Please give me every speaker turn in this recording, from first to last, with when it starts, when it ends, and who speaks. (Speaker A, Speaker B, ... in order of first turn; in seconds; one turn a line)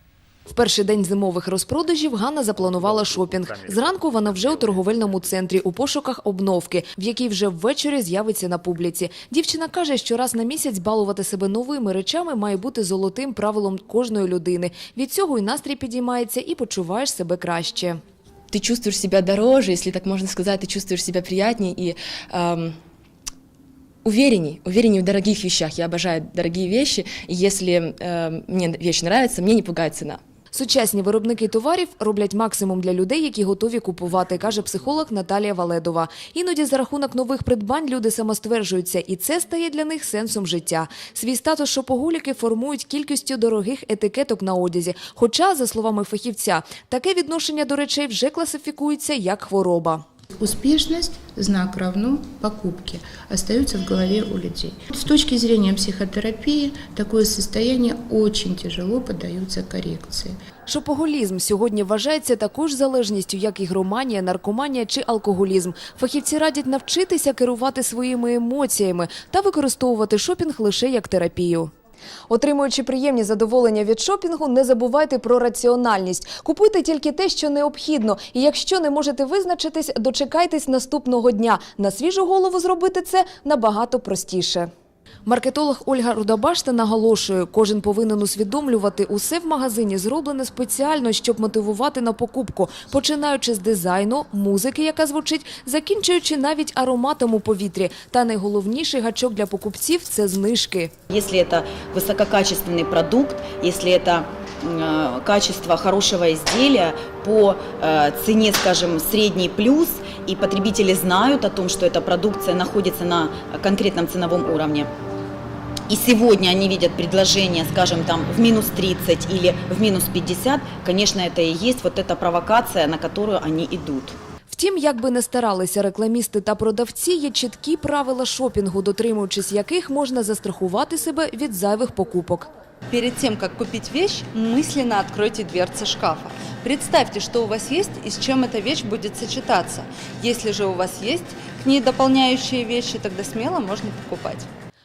Speaker A: 0.5-18.0
Speaker B: 18.5-22.8
Speaker B: 24.0-30.2
Speaker A: 30.5-50.0
Speaker C: 50.4-60.3
Speaker A: 60.7-71.7
Speaker A: 72.3-84.7
Speaker A: 85.2-100.9
Speaker D: 101.1-114.9
Speaker D: 115.9-124.2
Speaker A: 124.5-132.5
Speaker E: 132.9-144.5